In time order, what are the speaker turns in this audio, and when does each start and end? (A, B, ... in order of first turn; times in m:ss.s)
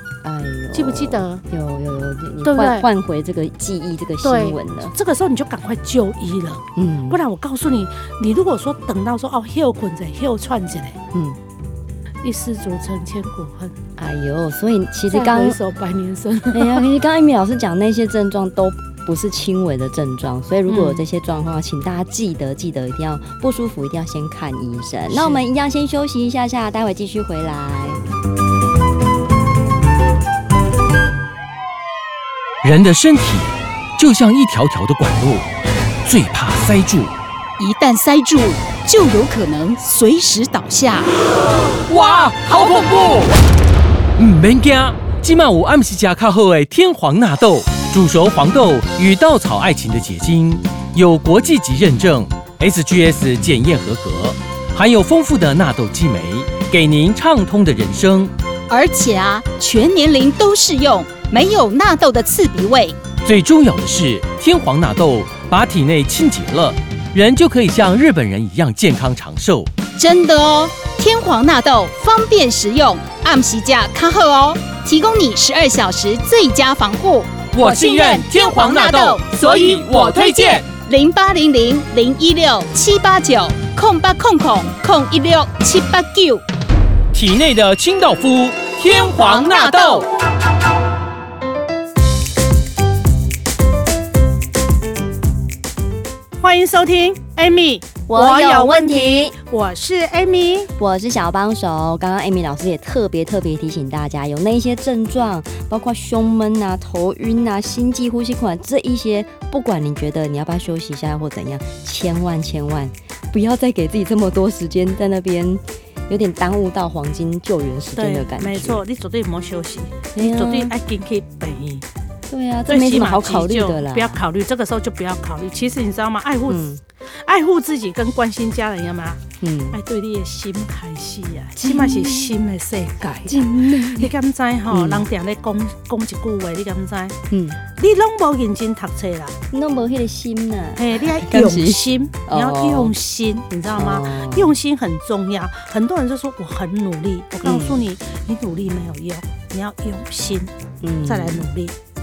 0:00.2-0:04.9 A
0:00.7-0:01.4 B
0:02.4-0:02.9 B
0:04.2-0:11.0 B
0:06.8-0:07.2 A
0:12.2-0:13.8 B
0:14.0-0:15.6 A
0:15.1-0:16.9 B
0:16.5-0:28.0 A
0:20.7-0:21.0 B
0:25.1-0:25.4 B
0:32.6-0:35.4 C
0:36.0-0:37.1 C
0:37.6-0:41.1 D
0:41.9-0:43.2 C
0:44.2-0:58.3 C
0:58.7-1:03.0 D
1:03.2-1:09.7 C
1:09.9-1:26.4 D
1:17.5-1:20.6 C
1:27.1-1:30.0 C
1:28.9-1:30.1 D
1:36.4-1:40.7 B
1:38.1-1:39.3 A
1:40.8-1:58.8 A
1:58.0-2:01.8 B
2:00.1-2:00.7 A
2:02.3-2:04.2 A
2:02.6-2:17.1 B
2:06.5-2:06.8 A
2:09.4-2:09.8 A
2:11.6-2:12.3 A
2:13.2-2:14.1 A
2:14.7-2:15.0 A
2:17.3-2:17.6 A
2:17.8-2:19.4 B
2:19.5-2:22.9 A
2:20.8-2:30.5 B
2:23.7-2:24.5 A
2:27.4-2:27.8 A
2:30.8-2:31.4 A
2:31.0-2:31.8 B